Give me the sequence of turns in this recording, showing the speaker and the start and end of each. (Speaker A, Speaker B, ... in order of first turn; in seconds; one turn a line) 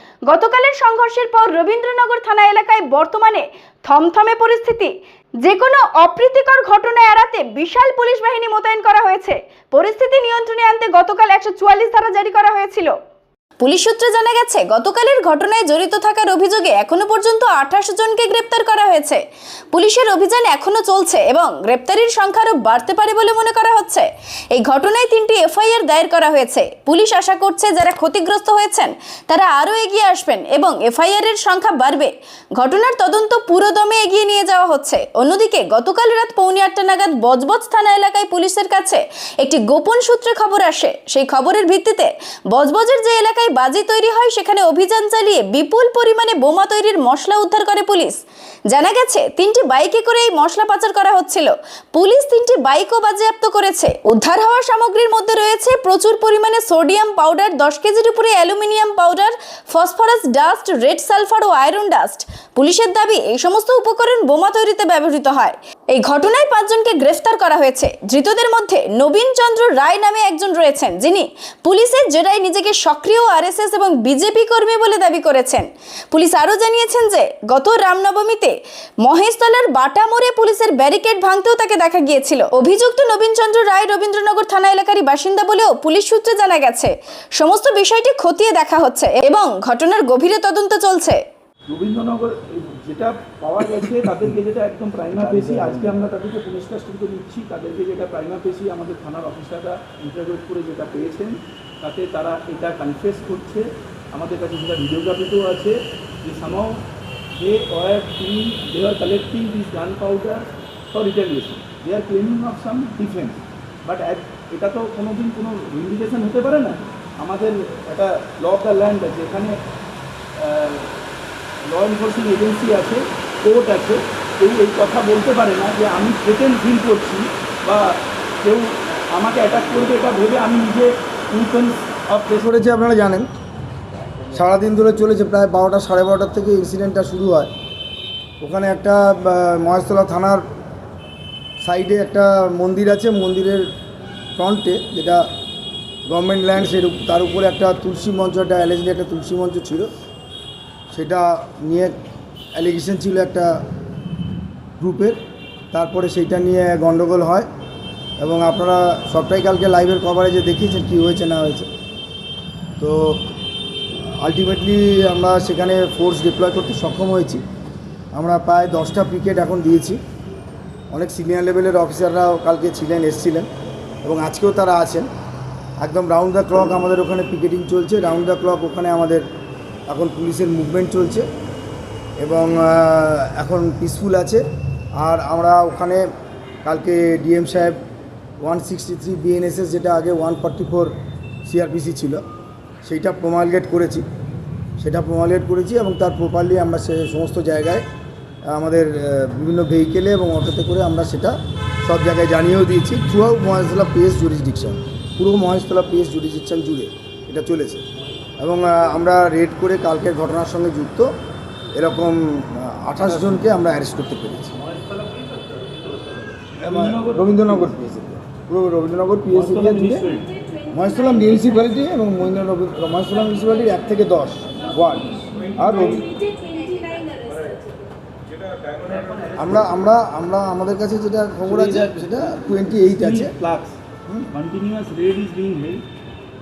Speaker A: 0.3-12.9
Speaker A: 13.6-91.2
Speaker B: 91.7-106.8
Speaker C: 95.2-96.0
Speaker B: 107.3-119.5
Speaker B: 120.4-120.9
Speaker B: 121.6-132.5
Speaker C: 132.4-133.3
Speaker C: 134.3-137.5
Speaker C: 138.4-140.4
Speaker C: 141.6-143.6
Speaker C: 144.3-145.2
Speaker C: 146.1-149.9
Speaker C: 150.9-151.9
Speaker C: 152.5-153.6
Speaker C: 154.8-155.2
Speaker C: 155.7-157.5
Speaker C: 158.2-161.7
Speaker C: 162.8-163.2
Speaker C: 164.2-167.4
Speaker C: 168.1-170.0
Speaker C: 170.9-173.5
Speaker C: 174.0-175.1
Speaker C: 175.8-179.2
Speaker C: 179.9-181.2
Speaker C: 182.2-184.4
Speaker C: 185.0-186.0
Speaker C: 186.6-187.8
Speaker C: 188.4-190.9
Speaker C: 191.4-192.2
Speaker C: 192.8-194.1
Speaker C: 194.8-197.8
Speaker C: 198.5-207.8
Speaker C: 208.4-211.1
Speaker C: 211.7-214.5
Speaker B: 216.6-217.8
Speaker C: 216.6-220.1
Speaker B: 219.3-220.3
Speaker C: 220.7-226.1
Speaker B: 228.8-229.3
Speaker C: 229.3-233.3
Speaker B: 231.4-233.8
Speaker B: 234.3-235.8